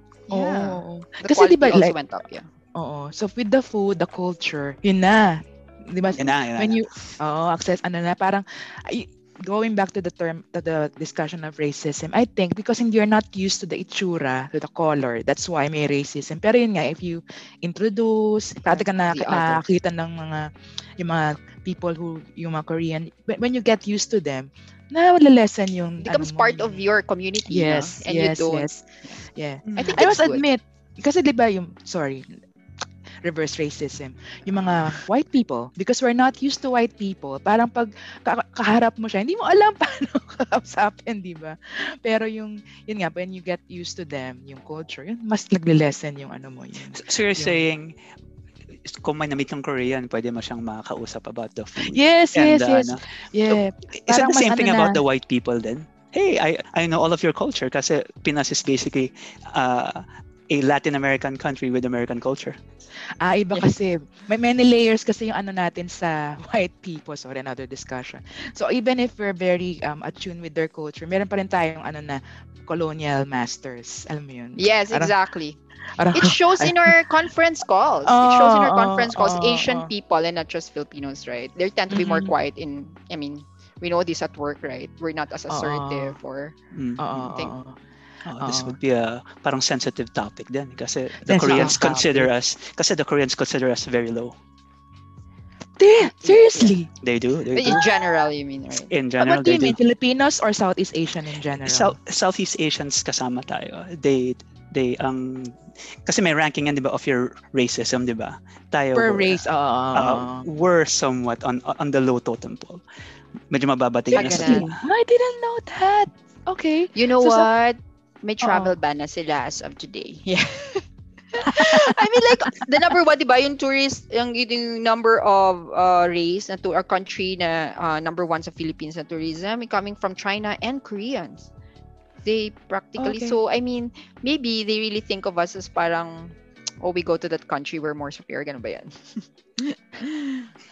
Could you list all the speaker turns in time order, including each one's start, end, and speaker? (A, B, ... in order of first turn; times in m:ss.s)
0:00.3-0:02.5 A
0:00.3-0:02.0 B
0:02.8-0:26.8 B
0:06.1-0:06.9 C
0:18.7-0:19.6 A
0:26.0-0:29.2 A
0:27.5-0:32.4 B
0:29.7-0:30.0 C
0:29.8-0:30.4 A
0:33.2-0:47.7 B
0:46.9-0:48.0 C
0:48.8-1:02.6 C
0:51.8-0:55.0 B
1:03.2-1:15.1 B
1:14.6-1:15.6 A
1:16.0-1:17.0 B
1:16.1-1:26.6 A
1:18.0-1:19.9 B
1:21.9-1:22.4 B
1:25.5-1:26.2 B
1:26.7-1:27.3 C
1:27.0-1:27.8 B
1:28.2-1:34.4 C
1:28.4-1:28.8 B
1:31.3-1:32.3 B
1:31.5-1:31.8 A
1:35.8-1:36.9 B
1:36.0-1:36.8 A
1:37.0-1:37.8 C
1:37.6-1:38.9 A
1:37.7-1:38.0 B
1:38.9-1:39.8 C
1:39.2-1:42.0 B
1:41.5-1:52.8 C
1:49.0-1:50.5 B
1:53.5-1:54.8 C
1:54.1-1:57.5 B
1:54.1-1:54.7 A
1:57.0-2:11.5 A
1:58.4-1:58.8 B
2:01.4-2:02.5 B
2:12.2-2:20.5 A
2:13.0-2:13.4 B